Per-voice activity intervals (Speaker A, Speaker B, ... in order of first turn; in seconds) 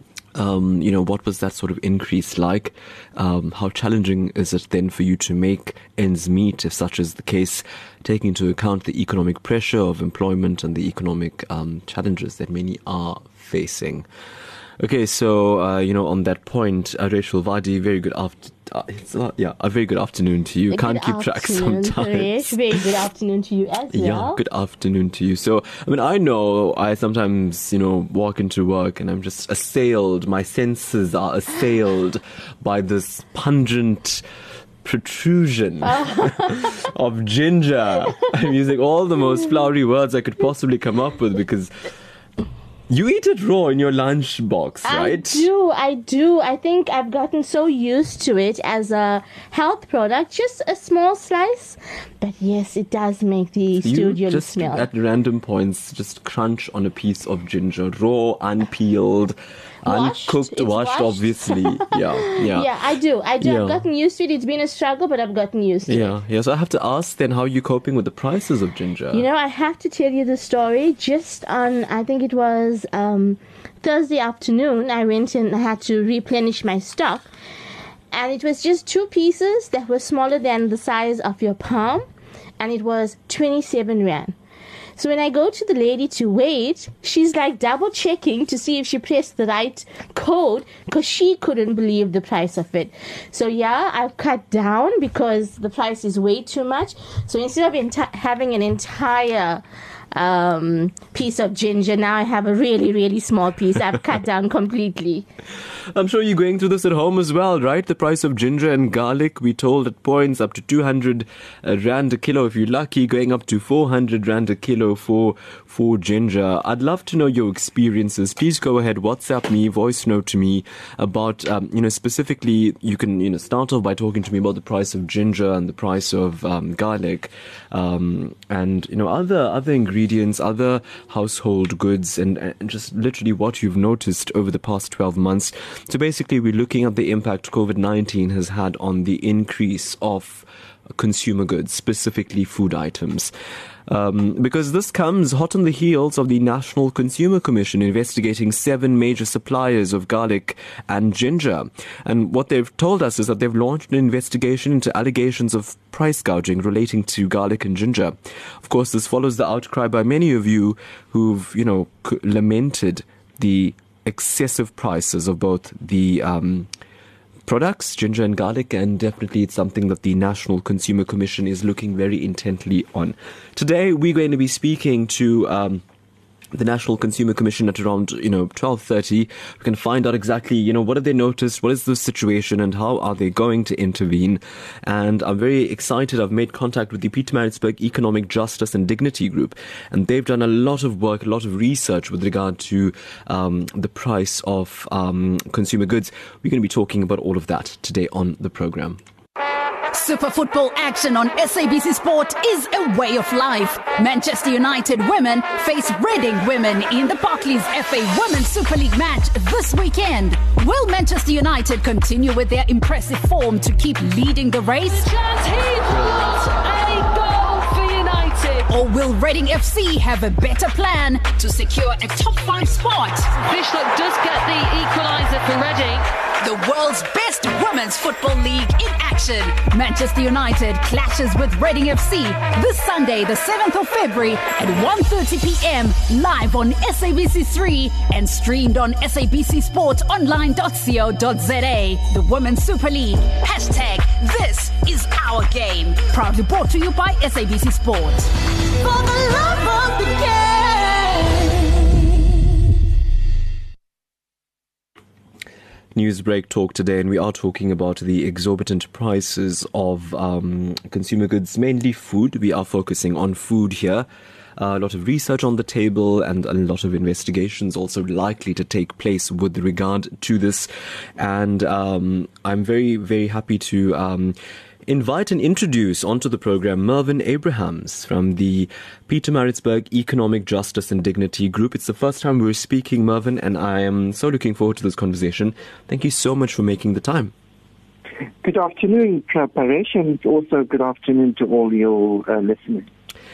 Speaker A: 0.3-14.1, 14.8-22.8, 23.9-34.2, 34.8-41.7, 42.9-45.5, 53.8-62.7, 63.4-63.8, 65.9-69.2, 105.9-143.3, 143.9-166.7, 167.4-175.8, 176.5-199.0, 255.9-287.3
Speaker B: 20.7-24.4, 35.9-36.6, 44.8-54.9, 59.8-66.1, 69.1-77.3, 78.1-82.1, 82.6-84.3, 85.0-99.6, 100.1-105.2
Speaker C: 199.9-215.1, 218.7-223.3, 226.4-248.3, 249.0-251.3
Speaker D: 214.9-218.7, 223.4-226.1
Speaker E: 288.4-292.9